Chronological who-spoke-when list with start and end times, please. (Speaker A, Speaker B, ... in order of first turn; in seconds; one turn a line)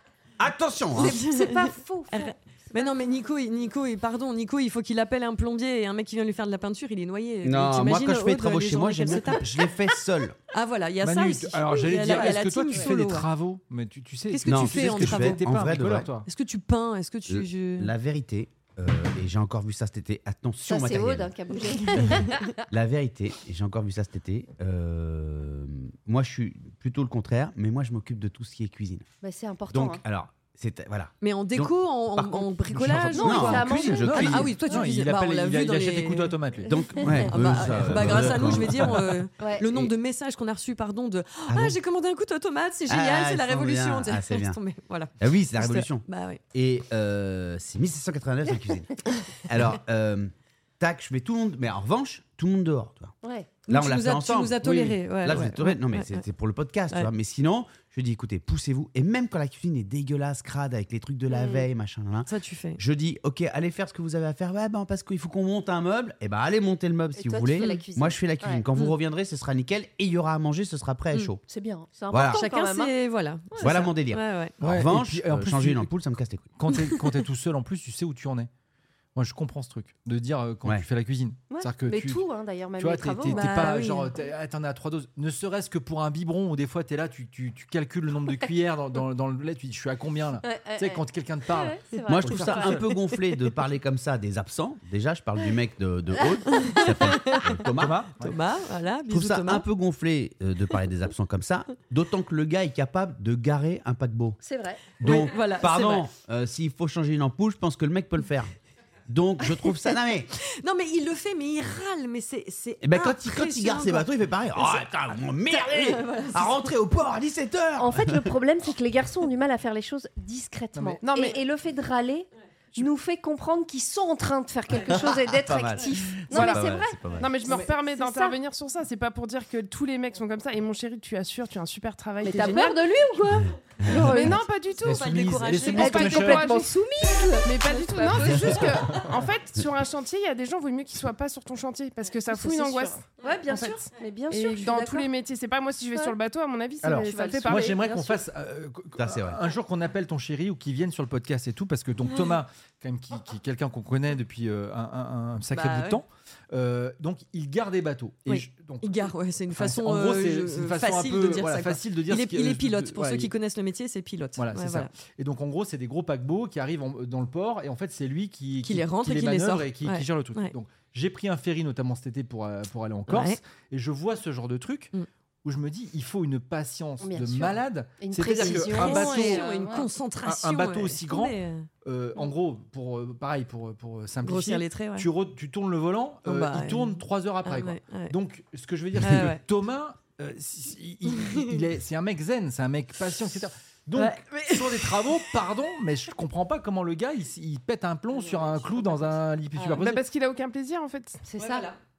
Speaker A: 0.4-1.2
Speaker B: 0.9-3.3
Speaker C: 0.9-9.6
Speaker A: 7.4-10.4
Speaker C: 10.5-13.3
Speaker D: 11.0-16.3
Speaker B: 12.0-12.9
Speaker C: 14.3-15.4
Speaker A: 14.4-16.1
Speaker C: 16.2-17.9
Speaker A: 17.3-21.3
Speaker B: 20.6-22.6
Speaker A: 22.7-29.1
Speaker B: 29.2-30.0
Speaker A: 29.7-32.5
Speaker C: 31.2-36.4
Speaker D: 32.7-37.1
Speaker A: 33.1-34.5
Speaker B: 33.1-34.9
Speaker A: 36.6-39.1
Speaker B: 36.9-37.3
Speaker C: 37.2-46.4
Speaker D: 37.7-39.0
Speaker B: 39.4-39.7
Speaker A: 41.5-41.8
Speaker A: 42.9-44.6
Speaker A: 45.2-53.1
Speaker B: 53.2-53.5
Speaker C: 53.7-56.2
Speaker A: 53.7-71.4
Speaker B: 61.3-61.7
Speaker C: 62.3-62.8
Speaker B: 67.2-68.6
Speaker C: 67.5-67.8
Speaker B: 71.5-72.9
Speaker A: 72.1-72.4
Speaker C: 72.3-74.5
Speaker B: 73.5-73.9
Speaker A: 73.6-76.5
Speaker D: 74.6-75.9
Speaker D: 76.6-78.5
Speaker C: 76.7-77.0
Speaker D: 79.1-82.2
Speaker B: 81.5-83.7
Speaker D: 82.8-92.8
Speaker C: 83.3-84.1
Speaker B: 90.4-92.8
Speaker A: 92.1-98.1
Speaker C: 92.7-93.2
Speaker C: 96.5-97.6
Speaker D: 97.8-98.3
Speaker C: 98.2-99.7
Speaker A: 99.1-104.4
Speaker B: 104.4-105.2
Speaker A: 105.0-108.5
Speaker C: 105.0-106.1
Speaker A: 109.1-110.3
Speaker C: 110.5-114.0
Speaker A: 112.8-118.3
Speaker C: 115.5-116.7
Speaker B: 117.8-128.4
Speaker D: 120.7-121.0
Speaker E: 121.0-121.4
Speaker A: 124.8-127.3
Speaker E: 126.3-132.9
Speaker B: 132.2-134.4
Speaker A: 133.8-134.1
Speaker C: 133.9-136.4
Speaker E: 133.9-147.9
Speaker D: 134.8-136.6
Speaker B: 135.8-138.9
Speaker B: 142.3-145.1
Speaker B: 146.9-148.2
Speaker D: 147.4-163.3
Speaker A: 149.0-149.4
Speaker C: 152.1-152.3
Speaker C: 155.5-156.0
Speaker C: 158.3-164.9
Speaker D: 164.4-179.5
Speaker C: 168.6-170.5
Speaker C: 173.1-173.4
Speaker B: 177.0-179.9
Speaker C: 178.2-181.7
Speaker D: 180.2-200.0
Speaker C: 184.2-185.1
Speaker C: 186.2-188.1
Speaker C: 189.0-189.4
Speaker C: 191.1-191.6
Speaker C: 193.9-195.3
Speaker B: 198.2-198.9
Speaker E: 199.7-201.2
Speaker B: 201.2-201.7
Speaker C: 201.4-201.8